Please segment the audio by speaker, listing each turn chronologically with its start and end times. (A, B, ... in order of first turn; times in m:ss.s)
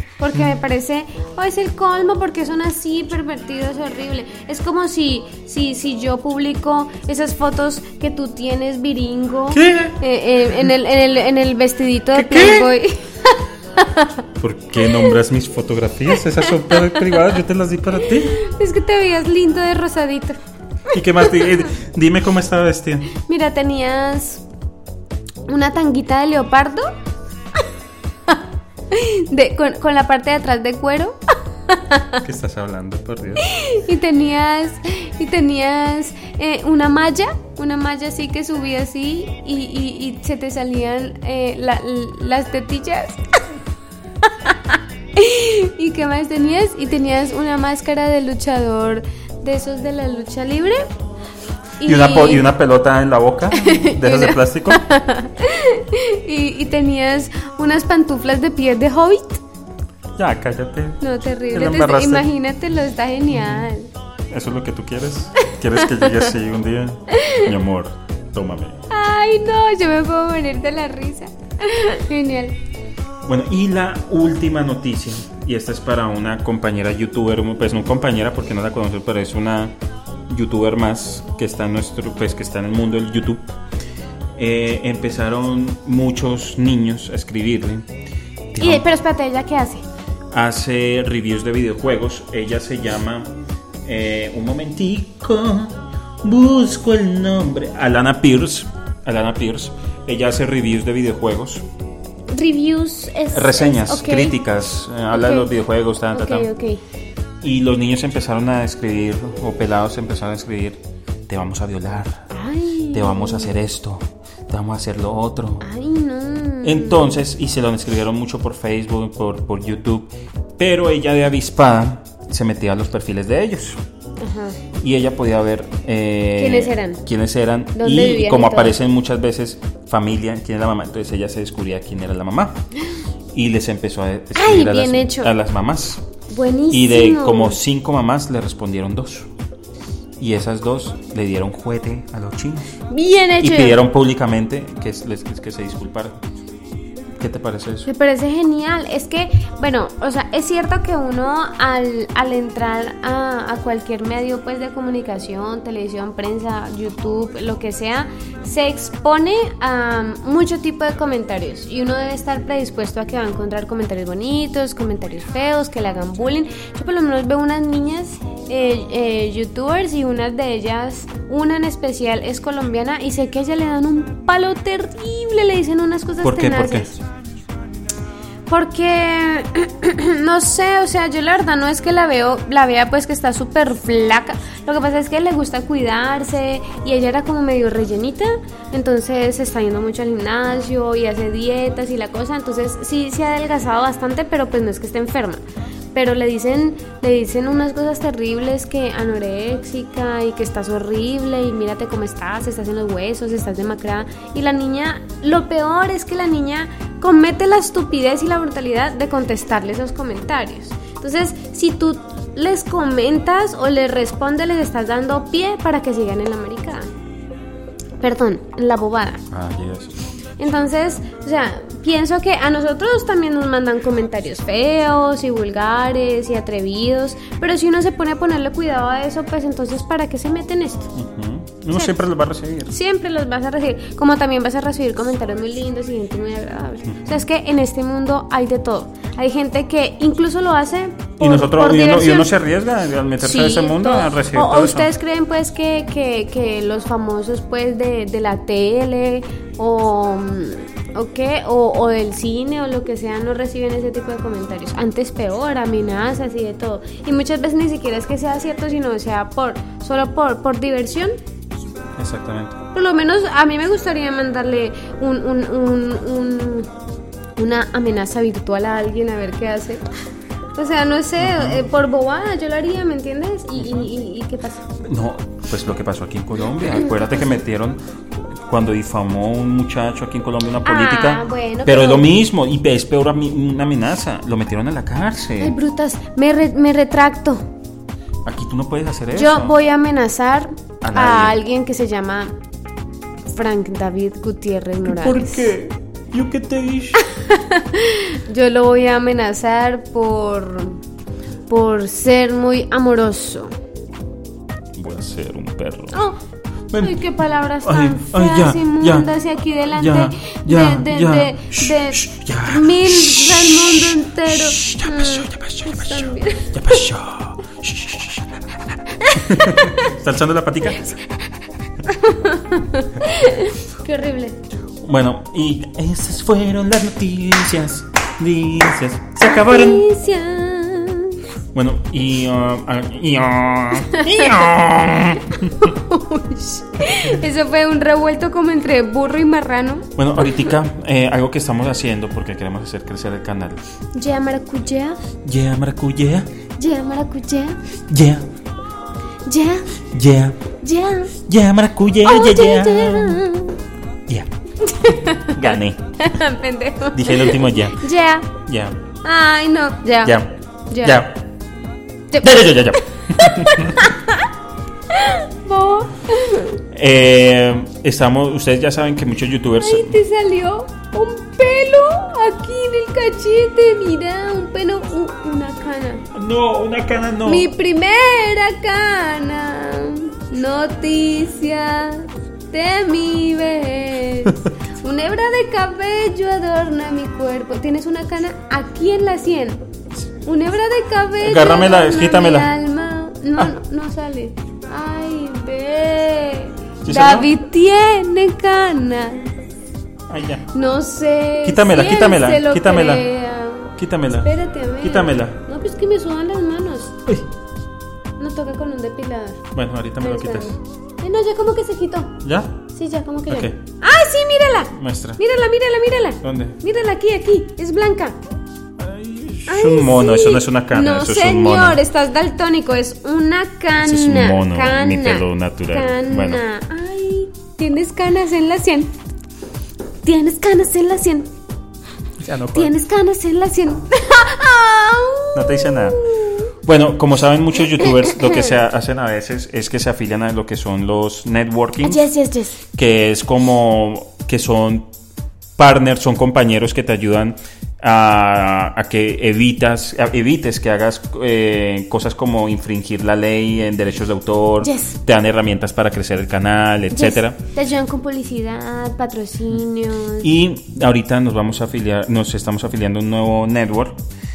0:00.2-0:14.2 A
0:09.5-0:10.0 B
0:12.1-0:12.7 B
0:14.4-0:18.4 B
0:14.8-0:15.2 A
0:16.1-0:17.2 A
0:18.0-0:20.4 A
0:20.9-0:23.1 B
0:23.1-0:24.4 A
0:25.5-0:26.9 A
0:28.3-0:32.2 A
0:32.2-0:33.5 B
0:33.4-0:43.4 A
0:44.2-0:50.9 A
0:51.8-0:52.5 A
0:51.8-0:54.8 B
0:53.5-0:59.4 A
1:00.2-1:02.3 B
1:01.0-1:03.9 A
1:04.3-1:08.8 B
1:05.8-1:06.3 A
1:07.1-1:07.5 A
1:08.9-1:12.6 A
1:13.2-1:19.8 B
1:20.3-1:23.4 B
1:24.4-1:27.8 B
1:28.5-1:28.8 B
1:28.6-1:29.8 A
1:30.3-1:33.3 B
1:33.8-1:41.6 B
1:42.3-1:44.4 A
1:43.3-1:46.5 B
1:45.1-1:45.5 A
1:46.1-1:46.8 A
1:47.4-1:52.3 B
1:52.3-1:53.5 A
1:52.9-1:55.6 B
1:55.6-1:57.2 A
1:56.6-2:03.8 B
2:04.2-2:04.6 A
2:04.8-2:12.6 B
2:06.3-2:07.0 A
2:07.8-2:08.8 A
2:13.3-2:16.0 B
2:14.3-2:15.3 A
2:16.3-2:17.6 A
2:16.7-2:19.3 B
2:20.2-2:22.7 B
2:22.9-2:23.8 A
2:23.4-2:26.2 B
2:27.2-2:27.9 B
2:27.8-2:56.9 A
2:56.2-2:57.0 B
2:58.5-3:15.4 A
3:15.9-3:36.9 A
3:38.0-3:39.2 A
3:39.3-3:40.0 B
3:40.4-3:50.9 A
3:50.9-3:52.7 B
3:51.7-3:52.0 A
3:52.7-4:02.3 A
3:56.9-3:57.2 B
4:01.2-4:04.9 B
4:03.2-4:21.1 A
4:22.0-4:22.6 B
4:22.7-4:26.7 A
4:27.4-4:29.8 A
4:30.6-4:34.6 A
4:31.2-4:31.6 B
4:33.6-4:33.9 B
4:34.8-4:45.5 B
4:40.6-4:42.1 A
4:45.4-4:47.4 A
4:48.2-4:49.6 B
4:49.1-4:52.4 A
4:50.8-4:51.4 B
4:53.3-4:55.4 A
4:54.8-4:57.0 B
4:57.0-5:00.8 A
5:01.5-5:03.5 A
5:04.8-5:06.0 B
5:05.9-5:06.2 A
5:06.7-5:07.0 B
5:06.8-5:16.8 A
5:07.6-5:09.1 B
5:09.7-5:21.0 B
5:19.0-5:19.9 A
5:20.8-5:21.1 A
5:21.8-5:24.4 A
5:24.8-5:29.8 B
5:29.2-5:31.2 A
5:31.5-5:35.8 B
5:33.8-5:34.5 A
5:35.3-5:40.5 A
5:40.0-5:43.6 B
5:43.9-5:45.0 A
5:45.2-5:46.3 B
5:46.6-5:47.6 A
5:47.9-5:48.3 B
5:49.2-5:49.7 A
5:49.9-5:50.4 B
5:50.6-5:51.1 A
5:51.2-5:53.2 B
5:52.0-5:53.6 A
5:54.6-5:58.3 A
5:55.3-5:55.9 B
5:56.9-5:57.9 B
5:58.4-5:58.8 B
5:59.0-6:01.0 A
6:00.0-6:01.2 B
6:02.1-6:04.3 A
6:02.2-6:03.9 B
6:04.9-6:06.6 A
6:06.7-6:10.0 B
6:09.6-6:16.0 A
6:16.1-6:17.5 B
6:17.2-6:29.6 A
6:30.2-6:39.3 A
6:31.2-6:32.5 B
6:36.8-6:37.3 B
6:40.1-6:40.5 B
6:40.5-6:47.0 A
6:41.4-6:43.0 B
6:43.8-6:45.4 B
6:48.2-6:49.5 A
6:49.5-6:50.6 B
6:50.0-6:52.2 A
6:52.2-6:52.6 B
6:52.7-6:58.2 A
6:53.3-6:53.6 B
6:54.7-6:55.2 B
6:56.2-6:56.6 B
6:58.8-7:01.8 B
6:59.5-7:08.9 A
7:03.8-7:06.4 B
7:10.0-7:11.3 A
7:12.2-7:12.7 B
7:12.5-7:16.5 A
7:15.3-7:16.0 B
7:16.6-7:22.0 B
7:17.7-7:18.5 A
7:21.8-7:22.6 A
7:22.7-7:24.9 B
7:25.6-7:37.4 B
7:34.6-7:35.0 A
7:36.9-7:40.3 A
7:40.2-7:44.0 B